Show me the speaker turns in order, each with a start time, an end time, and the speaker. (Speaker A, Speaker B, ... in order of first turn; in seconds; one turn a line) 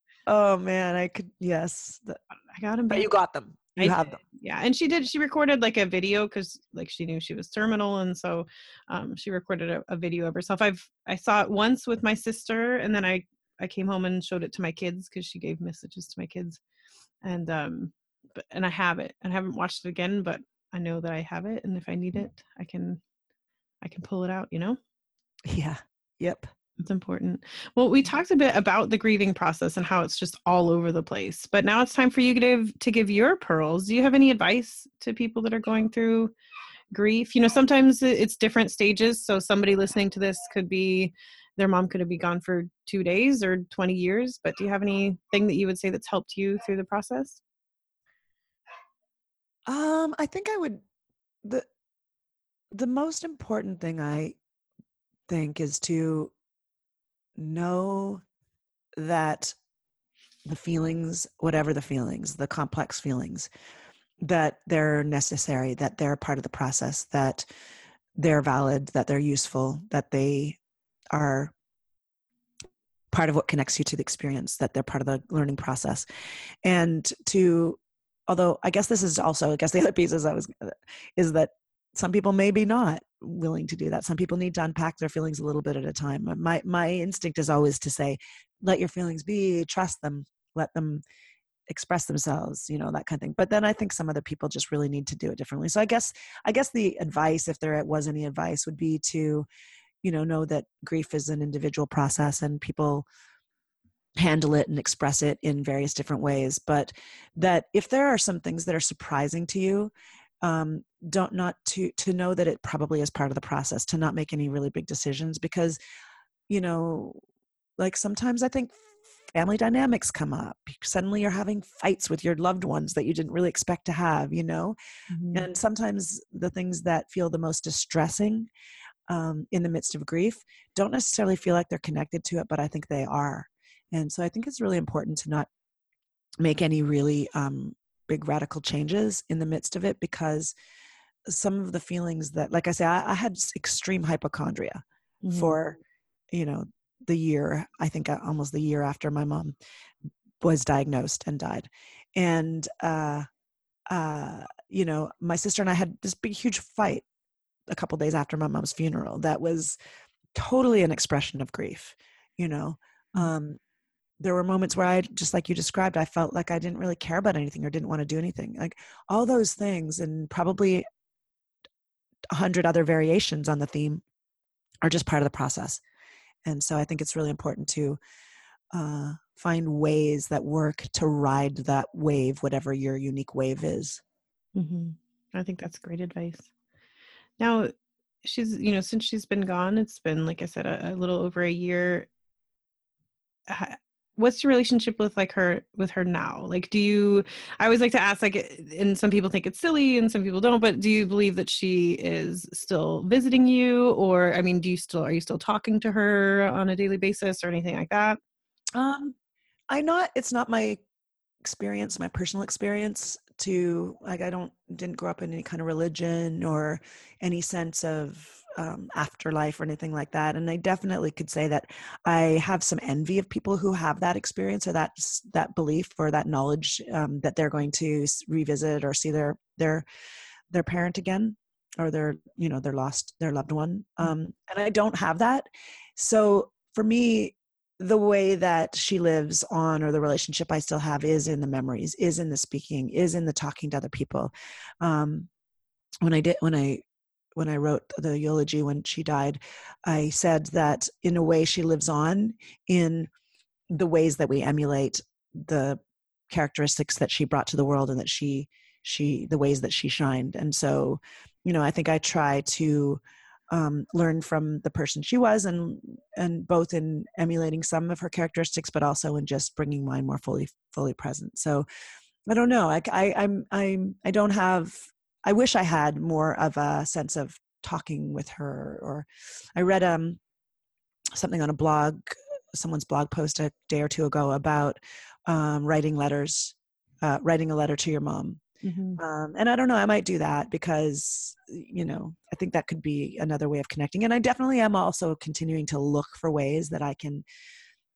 Speaker A: 0.3-2.2
Speaker B: 2.5-3.1
Speaker A: 2.9-4.2
Speaker B: 3.8-16.6
Speaker B: 17.2-23.0
Speaker B: 23.8-24.8
Speaker A: 25.5-26.5
Speaker B: 26.8-36.3
Speaker B: 36.9-47.4
Speaker A: 49.7-50.8
Speaker A: 52.7-54.4
Speaker A: 55.3-56.3
Speaker A: 57.4-58.2
Speaker A: 59.0-59.5
Speaker A: 60.5-63.5
Speaker A: 64.2-67.4
Speaker A: 68.2-70.6
Speaker A: 71.1-71.5
Speaker A: 73.1-76.0
Speaker A: 76.6-91.0
Speaker A: 91.7-99.5
Speaker A: 100.0-103.1
Speaker A: 104.2-109.9
Speaker A: 110.4-115.8
Speaker A: 116.5-117.2
Speaker A: 117.8-118.8
Speaker A: 119.3-124.8
Speaker B: 125.1-125.5
Speaker A: 125.3-128.5
Speaker A: 129.1-135.5
Speaker A: 136.4-140.5
Speaker A: 141.3-144.8
Speaker B: 145.2-145.5
Speaker A: 145.3-145.8
Speaker A: 146.3-149.5
Speaker A: 150.4-153.3
Speaker A: 153.9-157.0
Speaker A: 157.7-159.7
Speaker A: 160.3-163.6
Speaker A: 164.2-170.8
Speaker A: 172.3-174.0
Speaker A: 174.8-175.8
Speaker A: 176.4-178.0
Speaker A: 178.7-184.0
Speaker B: 184.5-186.5
Speaker B: 187.4-187.7
Speaker B: 188.2-192.1
Speaker B: 193.5-208.2
Speaker A: 208.7-209.1
Speaker A: 209.7-210.8
Speaker A: 211.4-229.8
Speaker A: 230.5-245.3
Speaker A: 246.0-246.8
Speaker A: 247.4-253.1
Speaker A: 253.7-271.6
Speaker A: 272.3-280.2
Speaker A: 281.1-288.4
Speaker B: 288.6-289.0
Speaker A: 289.0-297.2